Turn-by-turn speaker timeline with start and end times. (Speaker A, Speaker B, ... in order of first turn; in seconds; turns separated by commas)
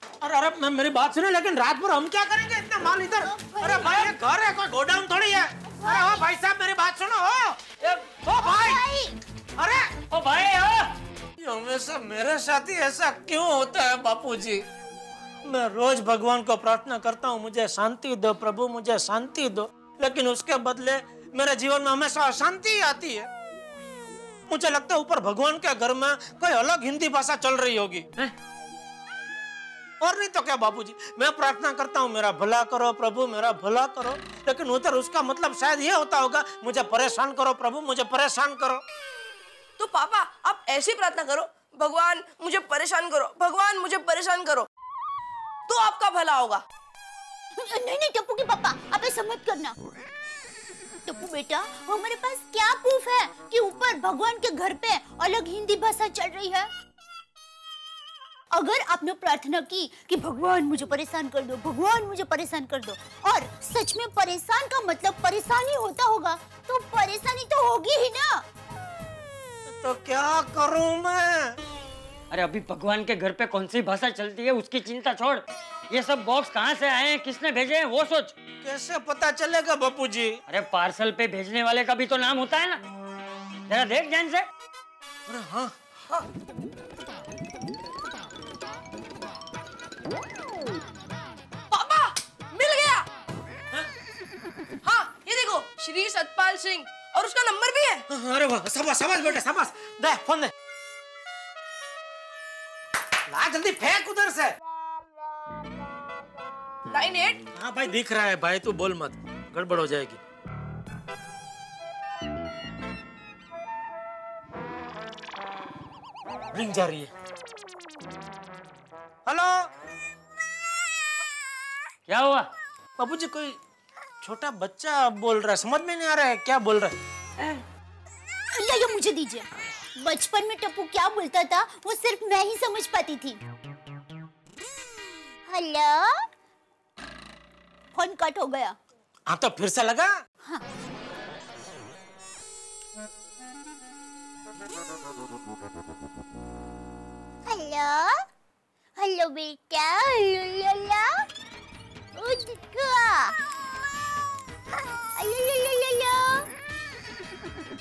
Speaker A: 0.2-7.6, Speaker B: 3.0-4.2, Speaker B: 5.7-6.3, Speaker C: 7.8-8.1, Speaker A: 8.3-8.8, Speaker B: 8.3-9.2, Speaker A: 9.6-9.9, Speaker C: 10.1-10.9, Speaker A: 11.4-14.6, Speaker A: 15.4-23.3, Speaker A: 24.5-28.1, Speaker A: 30.0-38.8, Speaker D: 39.8-44.7, Speaker D: 45.7-46.6, Speaker B: 47.6-49.8, Speaker B: 51.0-56.7, Speaker B: 58.5-68.4, Speaker A: 69.7-71.6, Speaker C: 72.3-78.3, Speaker A: 78.6-80.4, Speaker C: 80.5-82.8, Speaker C: 83.7-84.5, Speaker A: 85.3-85.7, Speaker D: 91.7-93.0, Speaker D: 94.8-98.0, Speaker A: 98.1-100.5, Speaker A: 103.3-104.5, Speaker D: 106.9-107.4, Speaker A: 107.6-110.2, Speaker A: 116.5-117.1, Speaker A: 119.3-119.7, Speaker C: 122.1-122.5, Speaker A: 123.0-123.6, Speaker A: 124.2-127.0, Speaker B: 128.5-133.4, Speaker B: 135.5-136.1, Speaker B: 137.9-138.8, Speaker A: 139.3-140.1, Speaker B: 147.5-148.2, Speaker B: 149.0-151.1, Speaker B: 152.2-153.3, Speaker B: 154.8-156.5